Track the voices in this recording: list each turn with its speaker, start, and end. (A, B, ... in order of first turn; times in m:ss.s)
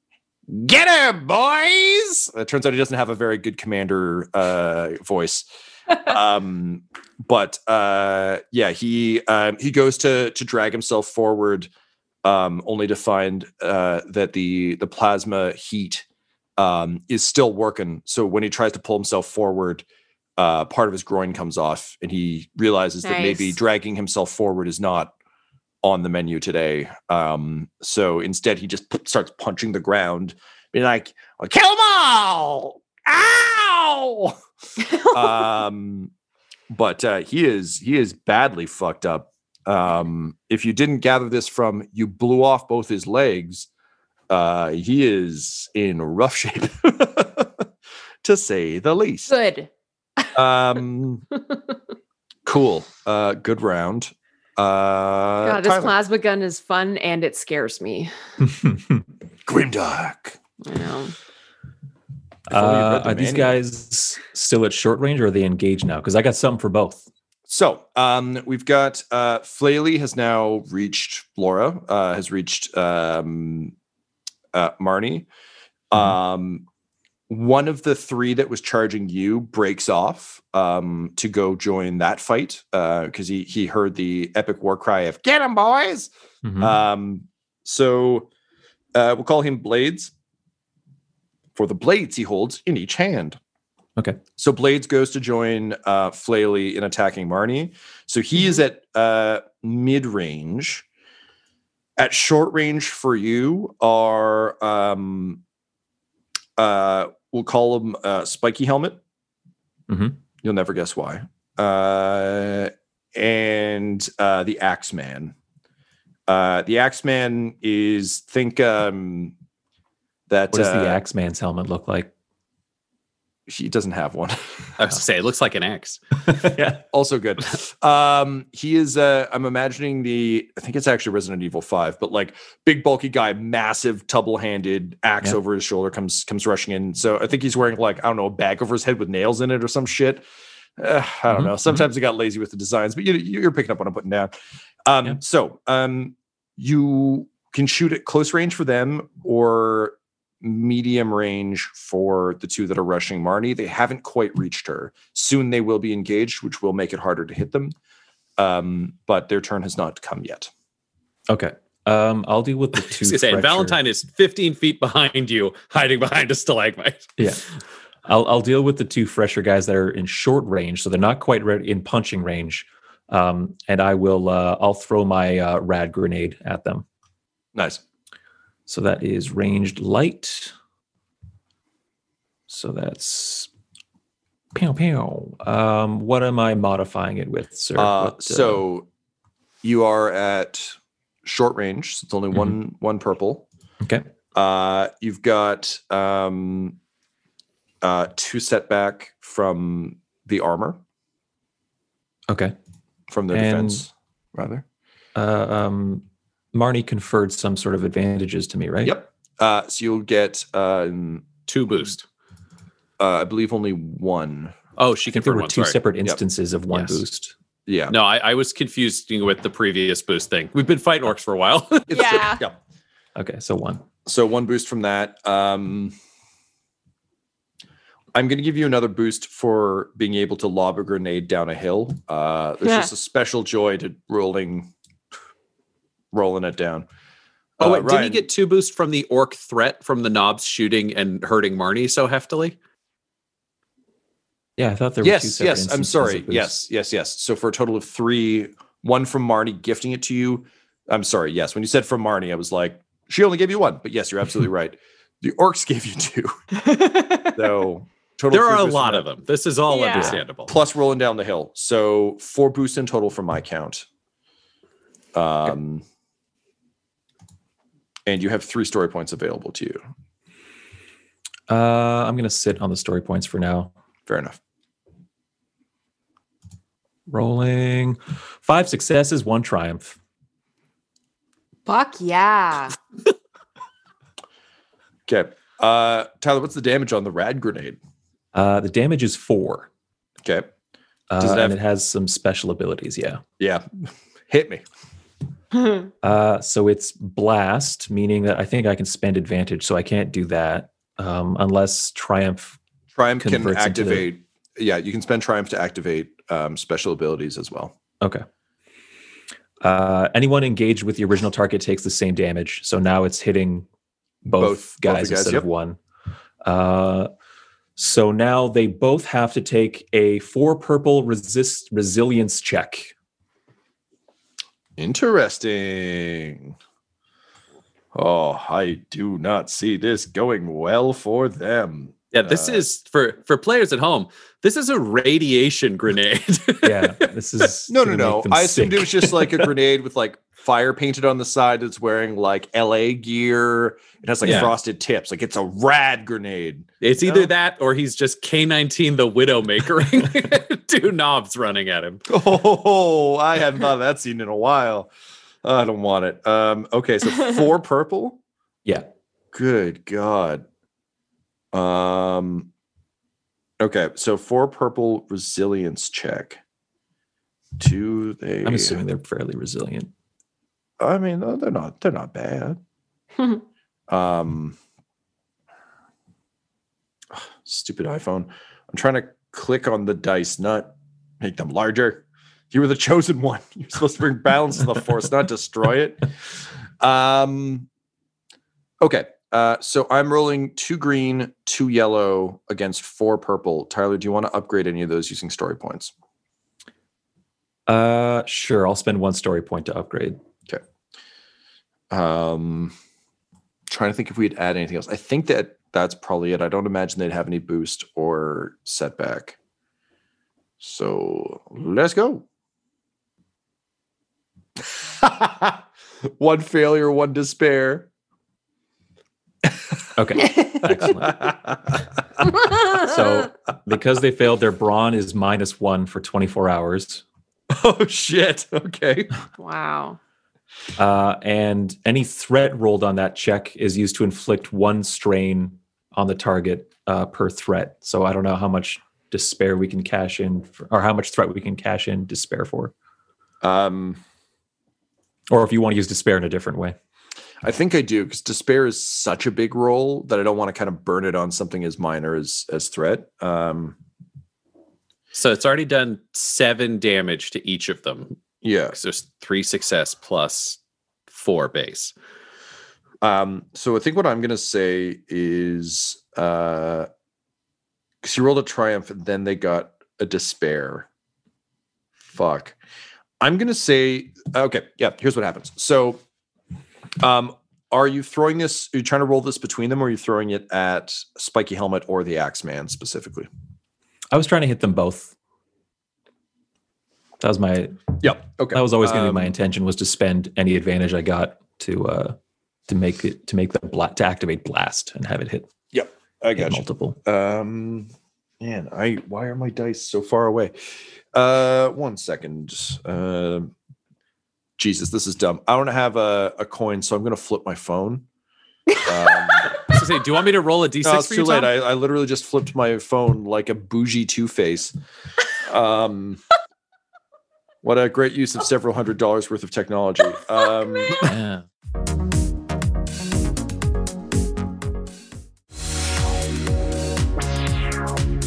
0:00.5-0:05.5 A
0:06.0-0:11.7 A
0:12.2-0:16.0 A
0:16.6-0:19.8 A
0:20.4-0:25.1 A
0:23.0-0:23.6 B
0:25.8-0:34.4 A
0:34.8-0:35.4 B
0:35.1-0:36.1 A
0:36.7-0:43.7 A
0:44.3-0:47.6 A
0:48.2-0:49.3 A
0:49.3-0:50.3 B
0:50.3-0:51.2 A
0:52.4-0:56.0 A
0:55.4-0:58.1 B
0:58.4-0:59.0 C
0:59.5-1:00.4 A
1:00.6-1:01.1 B
1:02.5-1:03.6 A
1:02.5-1:07.1 C
1:07.5-1:13.7 A
1:14.5-1:15.3 A
1:15.9-1:16.6 A
1:17.3-1:28.3 A
1:26.4-1:26.8 C
1:28.9-1:30.1 A
1:31.5-1:33.4 A
1:34.4-1:40.8 A
1:42.0-1:45.4 A
1:46.6-1:49.0 A
1:49.9-1:50.2 C
1:50.4-1:55.4 A
1:56.3-1:59.4 A
2:00.3-2:01.0 A
2:00.5-2:02.1 C
2:03.5-2:04.8 A
2:04.8-2:06.0 D
2:06.3-2:06.8 C
2:06.9-2:20.2 A
2:20.8-2:24.3 A
2:21.3-2:21.8 C
2:24.8-2:37.8 A
2:38.4-2:40.5 A
2:41.3-2:43.8 C
2:43.0-2:47.1 D
2:47.2-2:47.4 C
2:48.1-2:56.8 C
2:57.5-2:57.8 A
2:58.7-3:00.5 C
3:02.5-3:03.5 C
3:04.5-3:08.6 C
3:07.8-3:08.9 A
3:09.6-3:13.5 A
3:13.8-3:14.1 C
3:14.3-3:16.8 A
3:17.8-3:20.8 A
3:22.3-3:22.5 C
3:23.1-3:24.6 A
3:23.3-3:23.8 C
3:25.1-3:29.0 C
3:28.8-3:31.3 A
3:31.5-3:32.0 D
3:33.0-3:34.5 A
3:34.8-3:35.8 D
3:35.1-3:37.3 C
3:37.6-3:38.0 A
3:37.9-3:42.0 D
3:41.9-3:42.6 A
3:41.9-3:42.4 B
3:43.2-3:43.8 C
3:44.1-3:45.9 A
3:48.1-3:54.7 A
3:52.6-3:52.9 B
3:56.1-3:56.9 A
3:57.6-3:58.2 A
3:57.6-4:02.6 D
4:04.6-4:06.6 C
4:05.0-4:16.4 A
4:16.6-4:17.4 B
4:17.3-4:19.0 A
4:18.3-4:20.5 D
4:19.7-4:20.2 B
4:20.5-4:23.9 A
4:25.1-4:25.8 A
4:28.1-4:29.9 A
4:31.5-4:33.7 C
4:34.1-4:34.4 A
4:37.1-4:40.0 C
4:41.6-4:42.8 B
4:45.1-4:47.8 A
4:48.3-4:49.7 C
4:50.2-4:50.5 A
4:51.1-4:53.2 C
4:51.2-4:51.6 A
4:53.4-4:54.6 A
4:55.6-4:55.9 B
4:56.0-5:02.6 C
5:02.9-5:07.8 A
5:03.2-5:04.1 C
5:09.6-5:13.7 C
5:14.2-5:15.8 C
5:14.4-5:15.4 A
5:16.4-5:17.1 C
5:17.8-5:22.9 C
5:24.8-5:26.6 A
5:27.9-5:32.6 A
5:32.1-5:36.9 D
5:36.6-5:39.2 C
5:37.7-5:47.3 A
5:44.2-5:44.5 D
5:46.8-5:52.0 D
5:52.1-5:54.9 A
5:55.4-5:58.2 A
5:59.3-6:00.4 A
6:01.5-6:02.5 A
6:03.6-6:06.4 A
6:07.6-6:08.8 A
6:08.4-6:09.9 C
6:10.8-6:12.6 A
6:13.9-6:14.6 A
6:17.1-6:26.1 A
6:26.8-6:27.7 A
6:28.8-6:35.9 A
6:37.7-6:40.2 C
6:41.9-6:42.8 A
6:43.7-6:49.4 A
6:50.6-6:52.2 A
6:55.0-6:55.6 A
6:56.2-6:57.9 A
7:00.0-7:01.3 C
7:00.8-7:01.8 A
7:02.7-7:07.0 C
7:07.5-7:09.1 A
7:09.4-7:10.0 B
7:10.8-7:22.7 C
7:23.4-7:24.0 A
7:25.3-7:26.8 C
7:27.4-7:33.8 A
7:35.1-7:38.2 D
7:38.4-7:38.8 A
7:38.7-7:40.6 D
7:41.1-7:41.9 D
7:43.0-7:46.9 A
7:48.0-7:50.9 A
7:52.1-7:52.6 A
7:53.2-7:56.0 A
7:57.0-8:03.3 A
8:04.1-8:05.1 C
8:07.2-8:07.9 C
8:08.0-8:09.4 A
8:08.5-8:12.2 C
8:12.7-8:15.5 C
8:15.7-8:20.5 A
8:16.4-8:17.0 C
8:21.1-8:23.5 A
8:24.6-8:28.0 A
8:28.8-8:29.5 A
8:29.6-8:31.5 D
8:30.8-8:34.8 A
8:35.4-8:36.2 A
8:37.6-8:41.1 A